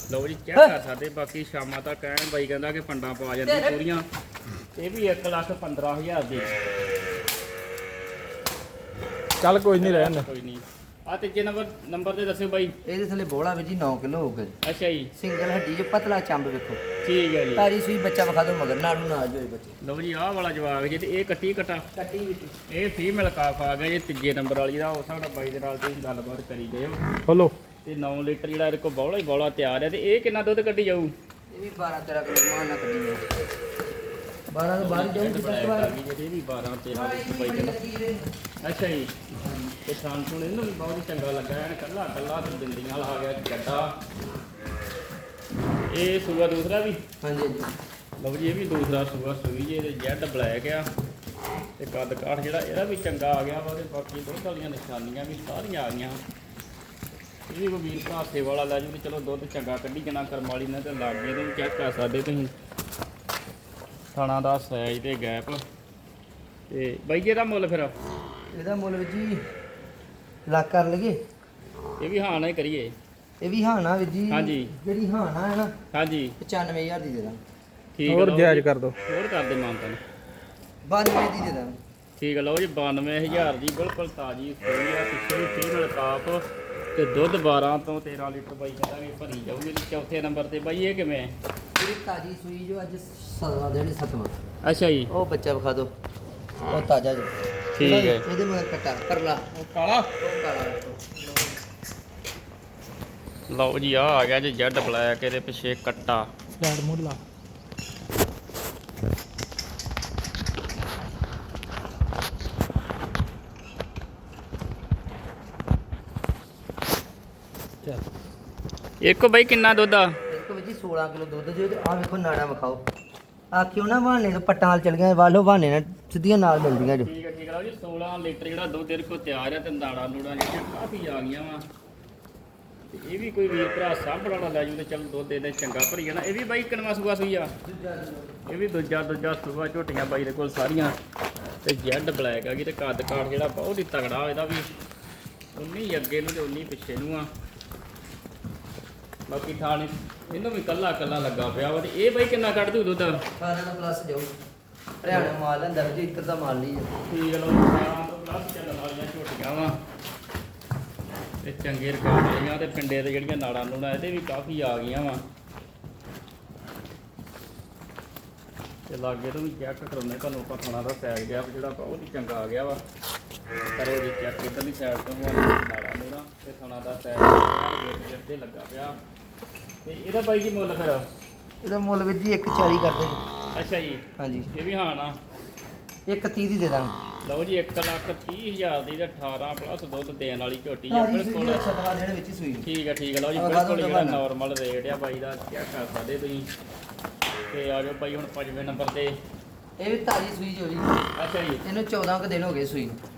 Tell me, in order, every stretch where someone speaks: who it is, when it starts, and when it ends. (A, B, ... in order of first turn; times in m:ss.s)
0:00.1-0:04.0 A
0:03.4-0:03.8 B
0:04.8-0:06.5 A
0:09.4-0:10.3 C
0:09.7-0:12.7 A
0:12.8-0:14.6 B
0:14.6-0:15.1 A
0:15.1-0:16.8 B
0:17.0-0:17.7 A
0:17.5-0:19.7 B
0:19.8-0:21.9 A
0:21.9-0:22.5 B
0:22.7-0:27.0 A
0:27.2-0:27.5 C
0:27.8-0:31.1 A
0:31.5-0:33.2 B
0:34.5-0:35.9 B
0:34.8-0:37.8 A
0:36.9-0:38.3 B
0:38.6-0:39.2 A
0:39.4-0:39.7 B
0:39.8-0:43.9 A
0:45.9-0:47.0 A
0:47.2-0:47.7 B
0:48.2-0:50.9 A
0:51.8-0:56.2 A
0:57.5-1:02.5 A
1:04.1-1:05.6 A
1:06.7-1:07.9 A
1:08.5-1:09.4 B
1:10.5-1:11.2 B
1:12.0-1:12.9 A
1:13.4-1:15.7 B
1:14.3-1:14.7 A
1:15.9-1:16.4 A
1:16.4-1:17.4 B
1:17.9-1:20.0 A
1:18.1-1:19.0 C
1:20.8-1:21.8 B
1:22.2-1:31.3 A
1:31.8-1:34.4 B
1:34.6-1:35.1 A
1:35.1-1:35.9 B
1:36.7-1:41.6 B
1:37.7-1:38.2 A
1:39.7-1:40.0 C
1:43.5-1:46.3 A
1:46.6-1:47.2 C
1:59.0-2:00.2 A
2:00.3-2:02.8 B
2:03.5-2:07.1 B
2:07.0-2:11.6 A
2:12.9-2:17.5 A
2:17.6-2:18.4 B
2:18.4-2:21.0 A
2:21.6-2:24.7 A
2:25.5-2:27.3 A
2:29.3-2:33.2 A
2:33.4-2:34.3 B
2:35.0-2:36.9 B
2:37.1-2:39.8 A
2:41.4-2:45.2 A
2:48.9-2:52.8 A
2:53.8-2:59.0 A
2:59.8-3:01.1 A
3:01.6-3:03.2 B
3:03.5-3:05.2 A
3:04.2-3:04.5 B
3:06.1-3:07.0 B
3:07.2-3:11.6 A
3:10.9-3:12.7 B
3:12.6-3:16.5 A
3:13.3-3:14.2 B
3:17.5-3:19.2 A
3:19.8-3:21.0 B
3:21.1-3:21.6 A
3:21.6-3:23.0 B